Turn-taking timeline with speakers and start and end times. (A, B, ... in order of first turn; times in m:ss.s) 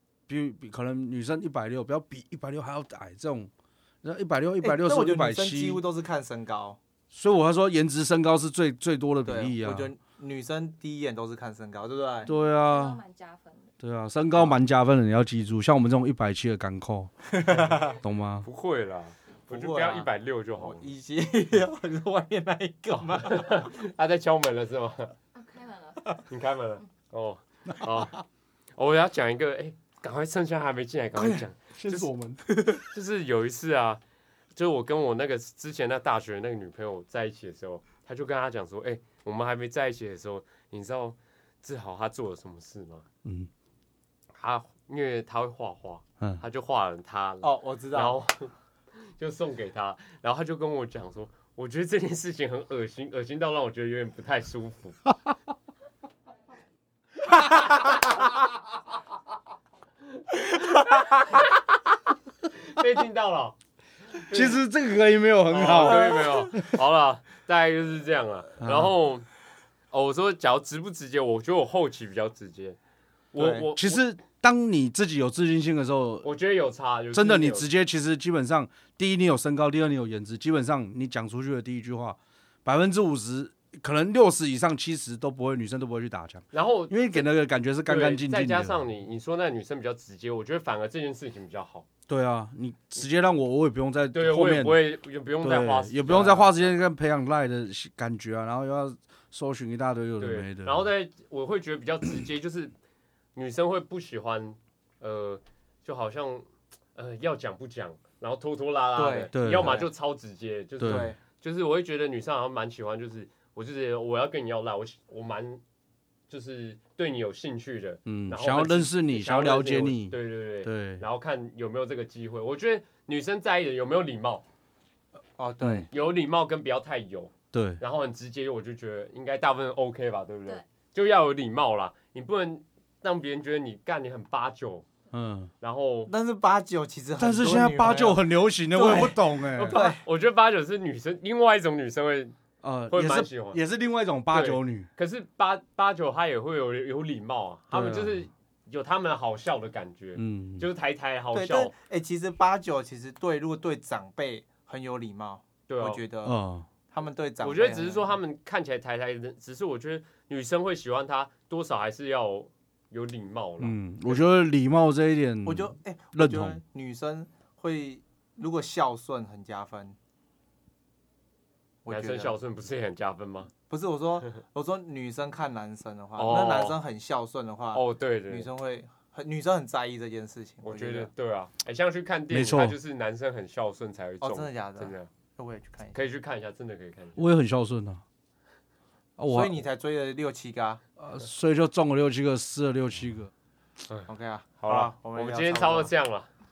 0:00.3-0:03.5 A
0:04.0-0:05.8 A
0:04.6-0:06.8 B
0:07.1-0:09.9 A
0:09.2-0:12.3 B
0:12.2-0:13.7 C
0:12.3-0:13.0 A
0:13.8-0:18.5 A
0:17.4-0:18.0 B
0:18.4-0:20.9 D
0:19.5-0:23.7 B
0:23.2-0:25.1 D
0:25.3-0:26.2 C
0:26.3-0:28.2 D
0:28.8-0:32.1 D
0:31.8-0:32.5 A
0:32.5-0:32.9 B
0:32.8-0:34.0 D
0:34.6-0:43.0 D
0:43.2-0:43.5 A
0:44.3-0:48.5 D
0:47.4-0:48.2 B
0:49.0-0:55.0 D
1:00.3-1:01.4 D
1:02.5-1:03.6 D
1:04.1-1:04.6 D
1:04.3-1:06.7 A
1:05.5-1:09.3 D
1:08.6-1:08.9 A
1:09.9-1:12.8 D
1:13.3-1:14.0 D
1:13.4-1:13.6 B
1:13.7-1:16.3 A
1:16.2-1:17.7 D
1:17.1-1:28.8 A
1:26.5-1:27.2 D
1:27.9-1:31.9 D
1:32.1-1:34.8 A
1:34.1-1:36.5 D
1:35.4-1:40.9 A
1:40.2-1:42.7 D
1:43.4-1:55.6 D
1:49.0-1:49.9 B
1:49.3-1:49.8 A
1:50.8-1:51.1 A
1:50.8-1:51.2 B
1:56.3-2:04.4 D
1:58.1-2:01.0 A
2:05.4-2:05.9 B
2:05.6-2:05.9 A
2:05.9-2:14.9 D
2:07.5-2:07.8 A
2:15.1-2:15.5 A
2:15.6-2:16.1 D
2:16.1-2:20.0 B
2:17.2-2:19.8 A
2:18.9-2:22.4 D
2:22.6-2:24.9 A
2:22.9-2:23.6 D
2:24.3-2:31.7 D
2:27.7-2:28.3 A
2:30.2-2:30.7 A
2:31.3-2:36.4 B
2:35.7-2:36.0 D
2:36.2-2:36.7 A
2:36.9-2:38.1 B
2:37.4-2:44.2 D
2:43.6-2:46.6 A
2:45.4-2:50.0 B
2:51.8-2:52.3 B
2:51.9-2:53.5 D
2:53.7-3:01.1 B
2:56.2-2:56.8 D
2:57.7-2:58.5 D
3:00.6-3:05.1 D
3:02.3-3:02.8 A
3:04.2-3:06.0 B
3:05.9-3:07.2 D
3:07.2-3:08.0 A
3:09.2-3:09.6 A
3:09.3-3:10.8 B
3:11.0-3:13.3 A
3:14.1-3:15.9 B
3:14.6-3:16.3 D